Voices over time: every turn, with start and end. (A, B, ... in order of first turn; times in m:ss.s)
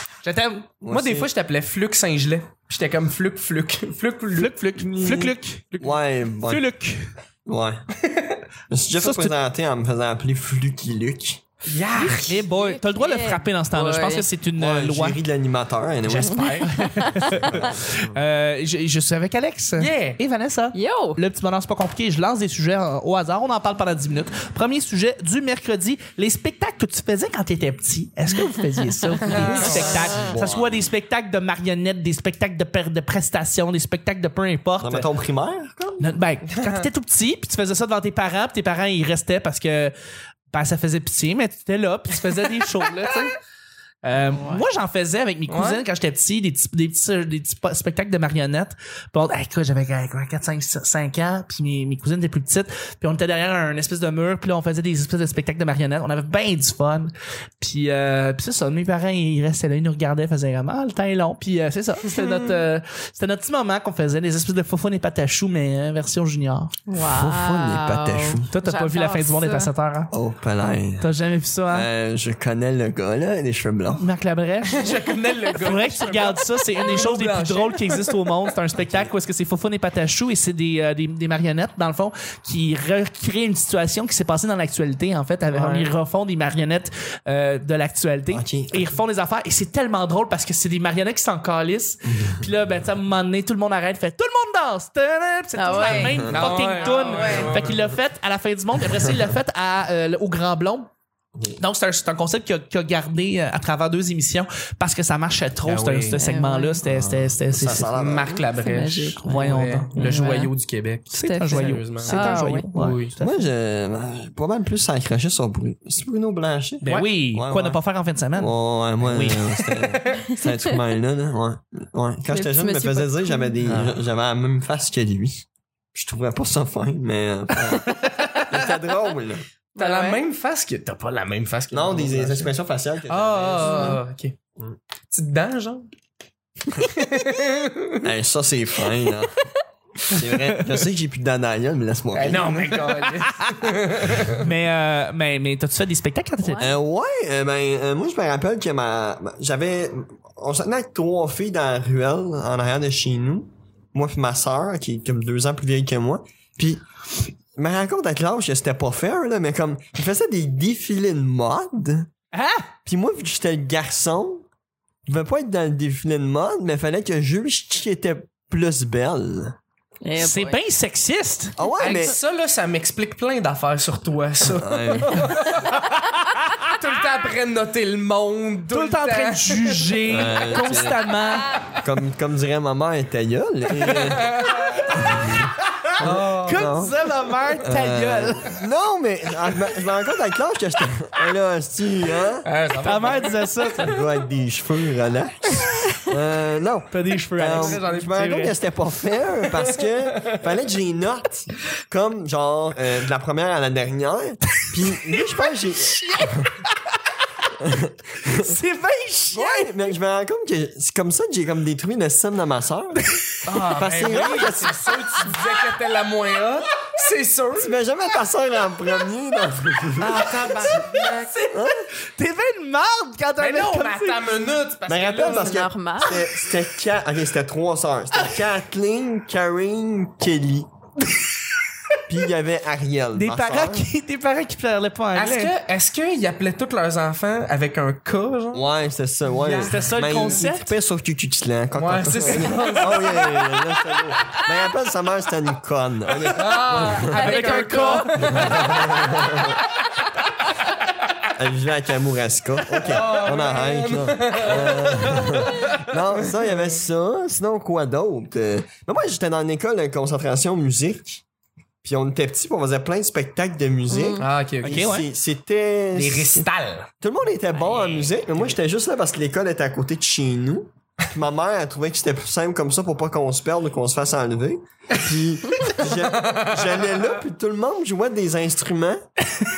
0:00.2-0:00.7 A
0:00.8-0:01.3 B
0:00.9-0:05.9 C
0:04.3-0:05.7 A
0:05.8-0:06.6 B
0:06.4-0:07.1 A
0:07.5-0:07.8 B
0:08.1-0:08.4 C
0:08.7-0:11.4 B
0:09.0-0:09.4 A
0:11.7-0:12.4 C
0:12.1-0:15.2 A
0:12.5-0:14.3 D
0:14.6-0:16.5 B
0:16.0-0:16.8 C
0:16.6-0:35.0 A
0:17.3-0:17.8 B
0:19.8-0:20.2 C
0:20.7-0:21.2 D
0:29.2-0:30.1 C
0:29.5-0:30.8 B
0:34.8-0:36.1 B
0:36.0-0:39.9 A
0:36.5-0:36.9 C
0:40.5-0:43.4 A
0:44.0-1:06.7 A
0:44.3-0:44.6 D
0:45.5-0:45.8 C
1:06.9-1:09.7 D
1:07.1-1:08.5 B
1:08.5-1:10.1 A
1:10.1-1:11.1 B
1:10.9-1:11.9 A
1:11.7-1:14.1 B
1:14.0-1:14.9 A
1:14.7-1:18.5 C
1:15.5-1:40.9 A
1:18.8-1:19.1 B
1:25.5-1:25.9 B
1:28.3-1:29.0 B
1:32.0-1:32.4 B
1:35.6-1:37.5 D
1:35.8-1:37.8 C
1:36.0-1:36.4 B
1:37.5-1:37.8 B
1:41.6-1:47.9 A
1:45.6-1:46.2 C
1:46.2-1:46.8 D
1:46.8-1:48.4 B
1:48.0-1:53.2 C
1:48.6-1:50.5 D
1:49.2-1:50.1 A
1:51.1-1:53.5 A
1:51.2-1:52.7 D
1:53.2-1:57.8 B
1:56.8-1:59.8 A
1:58.4-2:09.4 B
2:00.3-2:00.8 D
2:02.3-2:03.5 D
2:03.7-2:04.0 C
2:07.6-2:08.6 A
2:09.7-2:10.2 D
2:09.8-2:12.5 C
2:11.7-2:14.0 B
2:13.1-2:14.4 C
2:13.7-2:14.0 D
2:15.1-2:15.9 C
2:16.8-2:18.0 C
2:18.0-2:19.4 B
2:20.1-2:22.7 B
2:20.1-2:20.8 A
2:22.1-2:24.4 C
2:22.6-2:23.7 A
2:24.3-2:26.7 A
2:26.4-2:26.8 D
2:26.6-2:36.8 B
2:37.6-2:42.1 B
2:42.3-2:42.7 A
2:42.9-2:44.4 B
2:45.1-2:49.6 B
2:50.0-2:50.6 D
2:50.2-2:51.6 A
2:51.6-2:52.2 B
2:51.8-2:55.7 C
2:54.4-2:55.2 B
2:55.7-2:56.7 A
2:56.7-3:00.0 C
2:58.7-3:01.6 A
3:00.1-3:01.0 B
3:01.7-3:04.3 B
3:03.9-3:04.6 C
3:04.8-3:05.9 A
3:04.9-3:07.0 B
3:06.0-3:06.6 C
3:06.4-3:08.6 A
3:07.6-3:12.5 B
3:12.4-3:13.8 C
3:12.8-3:14.0 A
3:13.8-3:26.5 B
3:16.9-3:18.5 A
3:17.5-3:18.1 C
3:19.6-3:20.3 C
3:26.0-3:26.5 A
3:27.6-3:28.6 B
3:28.2-3:29.7 A
3:29.3-3:33.0 B
3:33.0-3:34.5 A
3:33.5-3:37.7 C
3:33.7-3:34.8 B
3:37.6-3:40.3 B
3:40.0-3:41.4 C
3:41.0-3:44.3 A
3:41.5-3:41.9 B
3:43.4-3:45.6 C
3:44.9-3:50.7 B
3:45.2-3:46.2 D
3:52.1-3:53.9 B
3:53.1-3:55.5 A
3:55.2-3:58.6 C
3:58.5-4:07.4 B
3:59.4-4:00.7 A
3:59.5-4:00.4 C
4:01.8-4:03.4 C
4:02.5-4:03.6 A
4:06.3-4:08.6 C
4:07.1-4:08.7 D
4:07.2-4:08.5 A
4:08.2-4:09.6 B
4:11.4-4:21.2 B
4:12.8-4:16.5 C
4:21.8-4:26.5 B
4:23.9-4:24.3 D
4:24.2-4:24.9 C
4:24.6-4:25.1 A
4:26.0-4:26.9 C
4:27.0-4:39.0 B
4:27.7-4:28.5 C
4:35.9-4:37.0 C